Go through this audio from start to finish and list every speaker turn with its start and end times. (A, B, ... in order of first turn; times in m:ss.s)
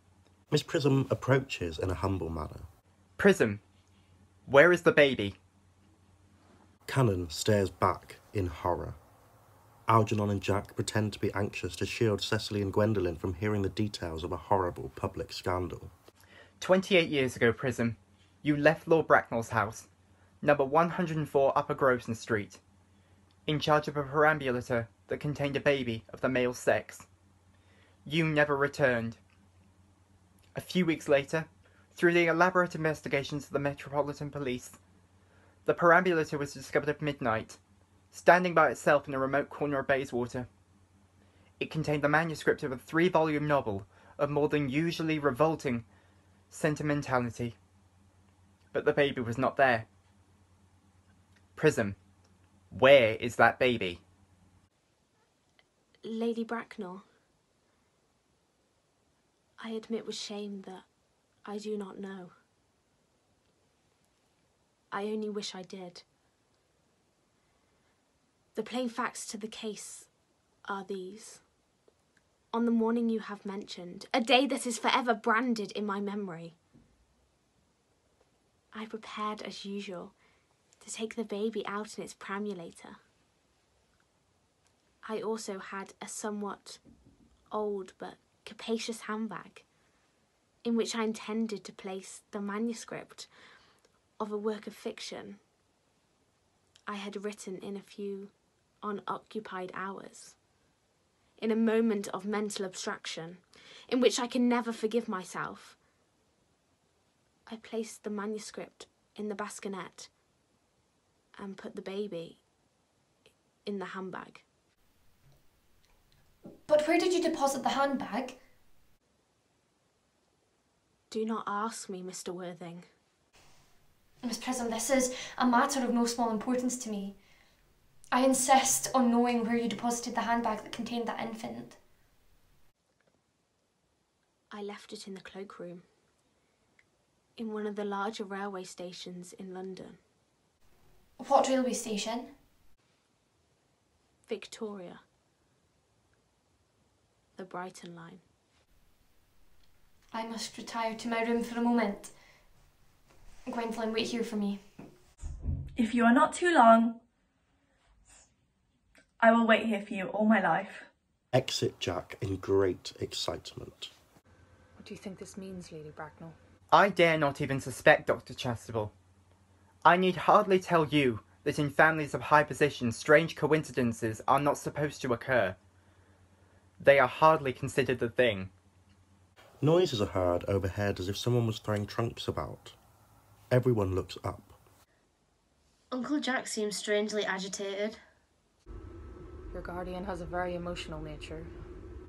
0:00.5-0:02.7 A
0:03.2-0:03.6 B
0:04.5-0:05.4 B
0:06.9-0:09.0 A
0:09.9-0:15.9 A
0:16.6-0:19.9 B
0:20.4-0:22.6 B
0:23.5-0:27.1 B
0:28.0-0:29.2 B
0:30.6-0:34.8 B
0:35.6-0:37.6 B
0:38.1-0:40.5 B
0:41.6-0:45.8 B
0:46.5-0:47.6 B
0:48.7-0:49.9 B
0:51.6-0:52.0 B
0:52.7-0:54.0 B
0:56.0-0:57.0 C
0:59.6-1:00.8 C
1:01.4-1:02.3 C
1:04.9-1:06.0 C
1:08.6-1:10.1 C
1:10.7-1:11.4 C
1:12.5-1:16.6 C
1:18.7-1:20.1 C
1:20.8-1:23.0 C
1:25.0-1:26.8 C
1:27.5-1:29.6 C
1:30.6-1:33.3 C
1:34.2-1:35.4 C
1:36.9-1:40.4 C
1:41.4-1:45.8 C
1:47.5-1:50.1 C
1:51.4-1:52.4 C
1:53.6-1:54.4 C
1:56.7-1:58.4 D
2:01.1-2:02.9 C
2:04.2-2:07.2 D
2:08.1-2:11.8 D
2:14.5-2:15.8 C
2:17.4-2:20.0 C
2:21.2-2:22.3 D
2:24.3-2:25.0 C
2:27.4-2:28.2 C
2:30.1-2:32.1 D
2:33.5-2:34.6 D
2:35.8-2:37.0 E
2:39.2-2:40.9 E
2:41.3-2:43.9 A
2:44.8-2:46.4 F
2:46.7-2:48.9 B
2:49.8-2:55.6 B
2:56.8-2:58.5 B
2:59.6-3:02.8 A
3:03.5-3:04.6 A
3:05.9-3:08.0 G
3:09.5-3:11.5 F